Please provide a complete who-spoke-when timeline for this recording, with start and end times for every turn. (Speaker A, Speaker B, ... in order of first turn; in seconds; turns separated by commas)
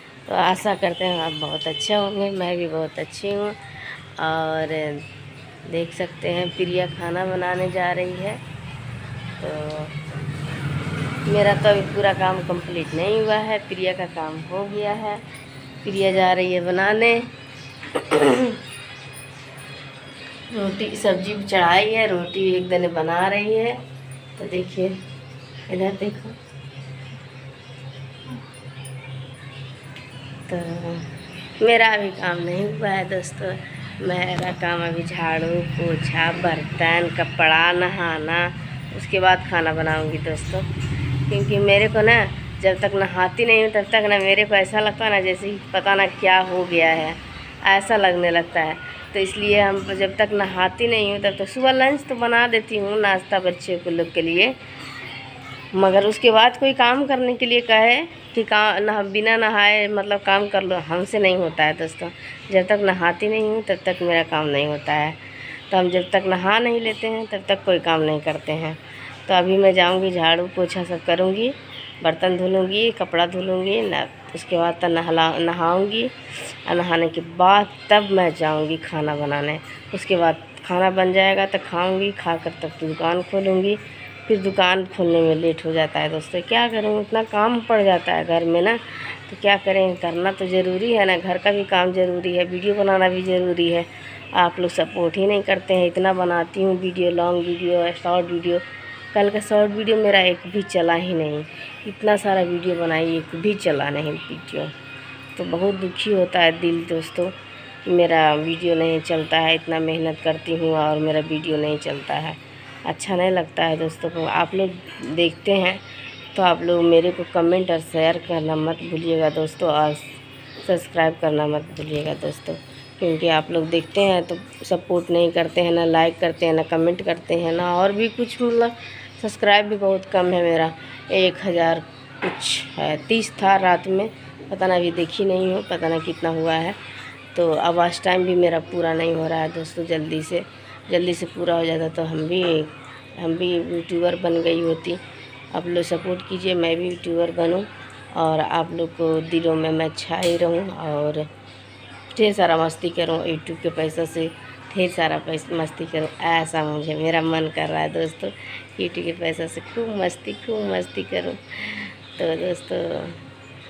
Speaker A: 0.3-3.6, Speaker A: 4.2-5.0, Speaker A: 5.7-8.4, Speaker A: 9.4-9.9, Speaker A: 11.2-15.2, Speaker A: 15.8-17.3, Speaker A: 17.9-18.6, Speaker A: 20.5-23.8, Speaker A: 24.4-25.0, Speaker A: 25.7-26.4, Speaker A: 30.5-40.7, Speaker A: 41.3-54.6, Speaker A: 55.7-104.7, Speaker A: 105.3-136.8, Speaker A: 137.3-151.3, Speaker A: 152.1-163.2